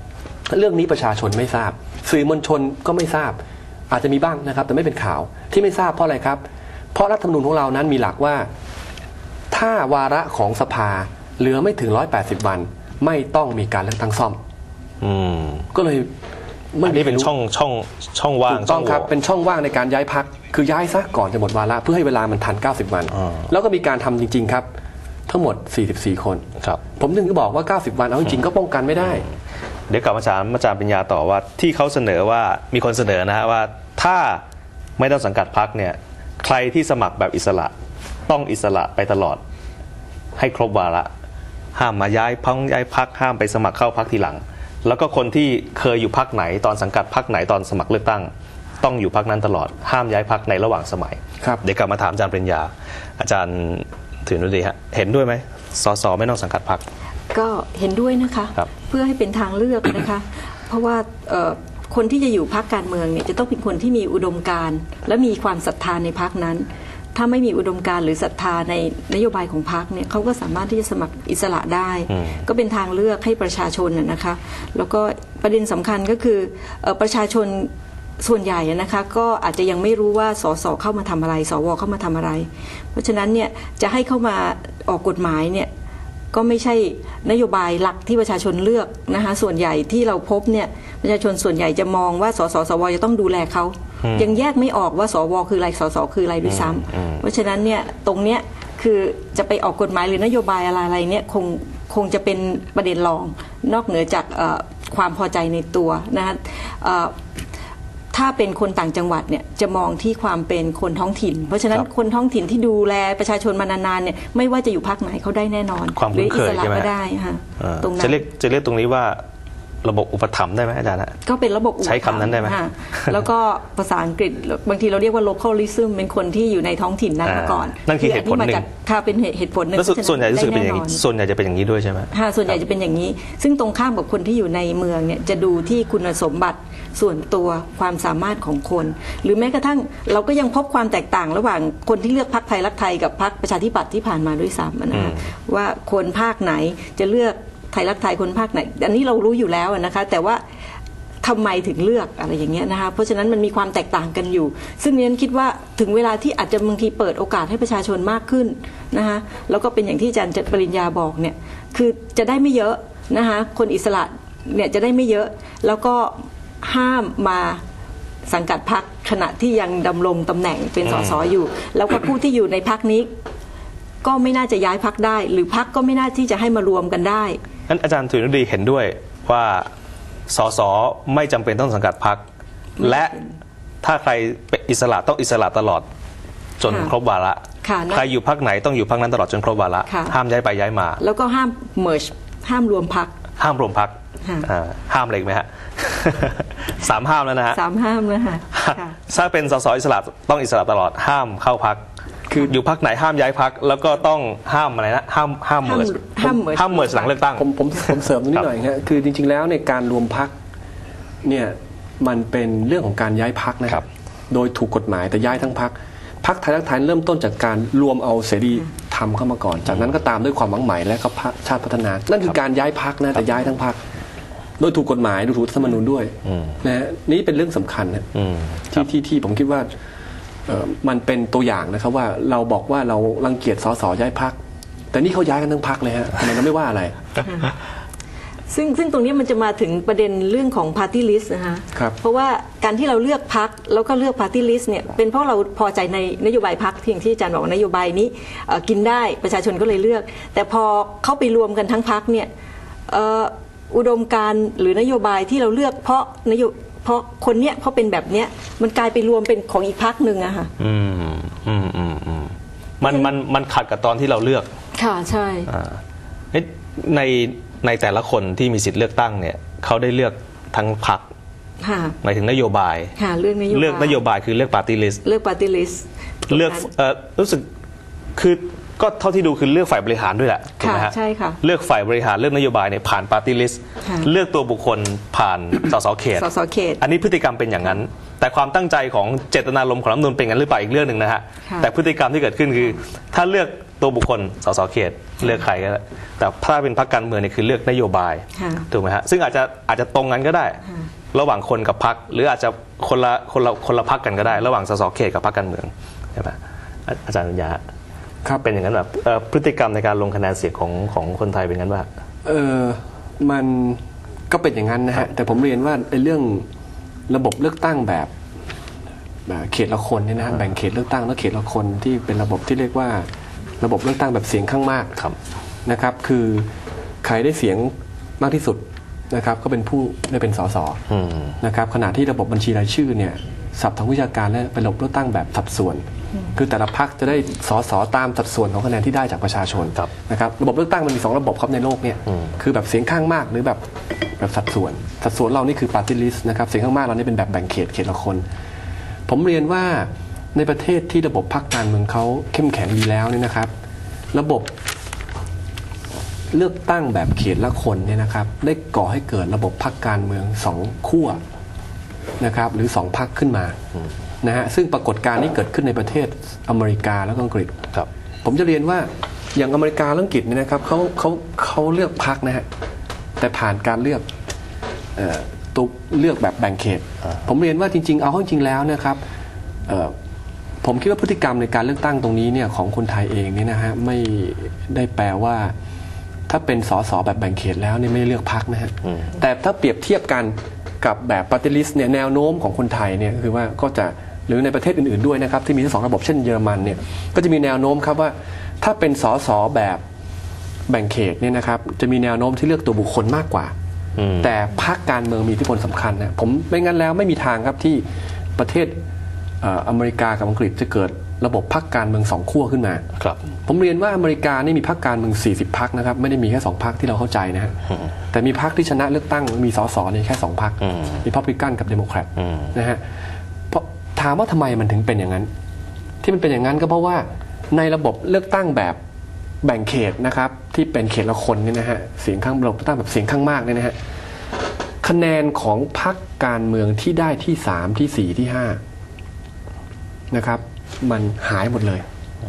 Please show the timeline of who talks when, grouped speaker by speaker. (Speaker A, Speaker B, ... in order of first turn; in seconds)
Speaker A: 0.5-3.4, 3.9-6.4, 6.9-8.5, 9.5-14.4, 15.7-16.1, 16.7-17.3, 18.5-24.7, 25.3-29.3, 207.3-210.3, 211.2-223.8, 224.6-228.1, 228.7-229.7, 230.5-234.3, 234.9-237.0, 312.2-316.4, 317.1-318.1, 319.3-323.1, 323.6-325.0, 325.6-326.5, 327.0-330.8, 331.4-343.6, 344.2-348.2, 349.1-353.5, 354.1-354.5, 356.3-361.2, 362.2-363.6, 364.2-367.6, 368.2-372.4, 373.2-374.1, 374.9-379.0, 379.7-379.9, 380.6-385.5, 386.3-399.8, 400.7-403.5, 404.2-407.8, 408.4-408.8, 409.4-412.8, 413.4-417.6, 418.1-422.8, 423.5-425.3, 426.0-428.8, 429.4-433.8, 434.8-438.6, 440.1-441.8
Speaker B: 15.0-15.7, 16.8-19.1, 29.9-34.4, 35.0-37.7, 38.3-39.4, 40.4-41.1, 41.7-48.3, 48.8-56.8, 72.1-72.4, 94.0-94.4, 96.4-97.2, 116.0-116.9, 117.6-119.2, 119.8-121.2, 121.8-123.2, 127.2-128.6, 129.7-132.6, 144.9-145.3, 170.8-171.3, 177.7-179.7, 180.3-182.2, 182.8-183.2, 183.8-185.8, 186.6-191.0, 193.4-197.6, 198.5-208.4, 226.2-226.6, 228.1-228.8, 260.6-264.5, 265.5-265.8, 266.3-271.1, 272.0-272.9, 273.5-275.0, 276.3-277.5, 278.1-286.3, 286.8-300.6, 301.1-307.6, 308.4-311.9, 330.9-331.4, 404.0-404.3, 420.6-421.0, 422.2-422.5
Speaker C: 57.3-85.7, 86.3-107.1, 108.1-118.2, 121.2-131.0, 132.1-150.4, 151.2-167.6, 168.3-173.1, 174.0-177.4, 182.8-183.3, 186.7-186.9, 187.6-188.1, 189.9-190.1, 191.0-193.1, 197.5-199.0, 205.6-207.2, 238.5-252.3, 252.9-260.5, 262.8-263.1, 264.8-265.5, 271.6-272.0, 273.0-274.0, 275.0-276.6, 280.6-281.4, 283.8-284.1, 286.1-286.8, 298.4-298.7